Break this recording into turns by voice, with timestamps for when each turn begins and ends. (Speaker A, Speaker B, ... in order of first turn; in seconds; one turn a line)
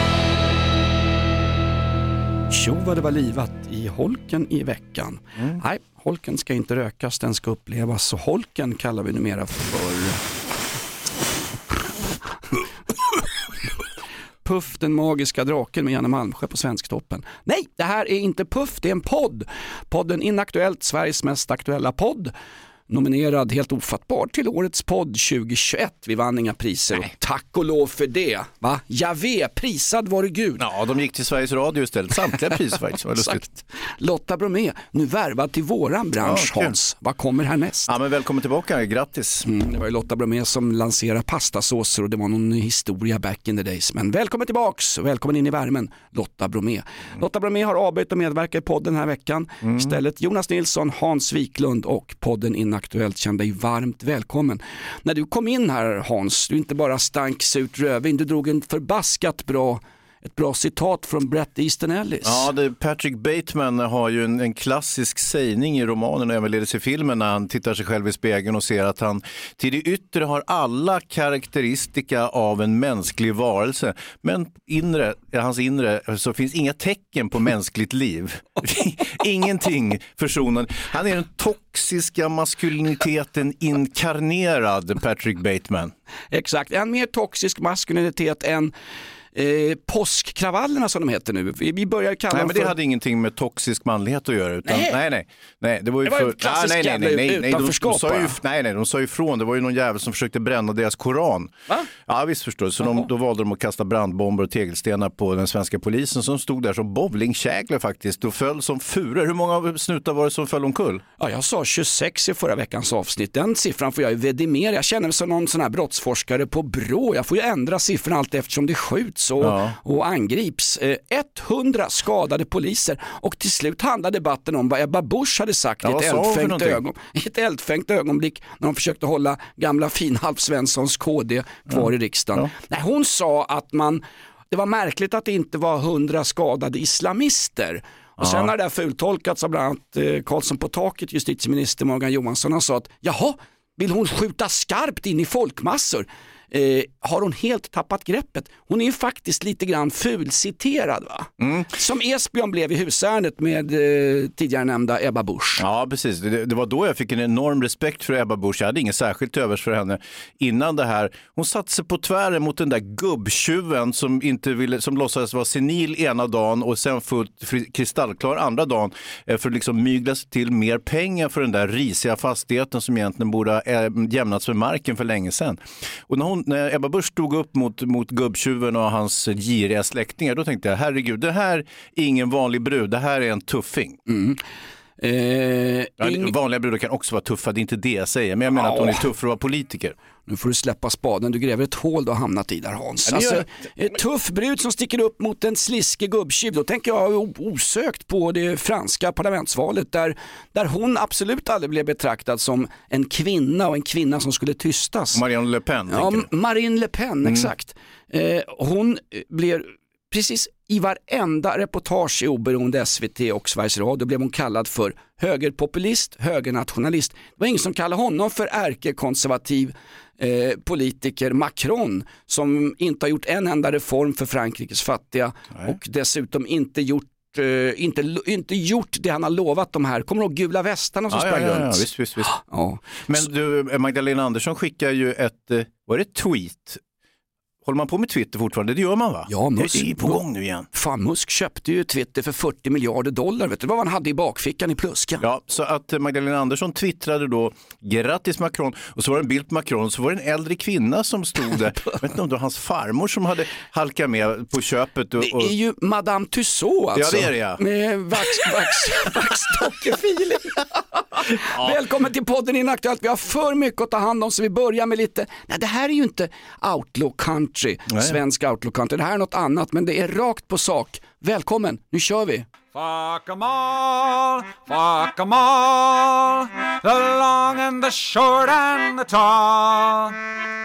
Speaker A: 2.5-10.2
Speaker A: 14.4-22.3
Speaker A: 22.9-30.6
Speaker B: 30.6-33.5
Speaker A: 33.2-37.9
Speaker B: 36.2-36.8
Speaker B: 37.9-39.5
Speaker A: 39.4-62.5
Speaker B: 49.6-49.9
Speaker B: 62.2-85.9
Speaker A: 86.3-88.7
Speaker A: 89.3-92.8
Speaker B: 92.3-111.0
Speaker A: 94.7-95.0
Speaker A: 96.0-98.4
Speaker A: 111.2-155.6
Speaker B: 119.4-119.8
Speaker B: 125.8-126.8
Speaker B: 138.2-138.5
Speaker B: 151.4-151.7
Speaker B: 155.6-184.0
Speaker A: 184.1-184.4
Speaker A: 185.0-186.3
Speaker B: 186.0-189.9
Speaker A: 188.5-189.0
Speaker A: 190.3-205.2
Speaker B: 193.1-193.4
Speaker B: 205.1-206.3
Speaker A: 205.9-233.0
Speaker B: 207.2-207.5
Speaker B: 231.1-232.3
Speaker B: 233.1-236.8
Speaker B: 237.6-240.7
Speaker A: 239.3-245.3
Speaker B: 245.2-255.5
Speaker A: 255.2-272.5
Speaker B: 256.9-257.6
Speaker B: 261.5-261.8
Speaker B: 267.9-268.2
Speaker C: 272.7-280.2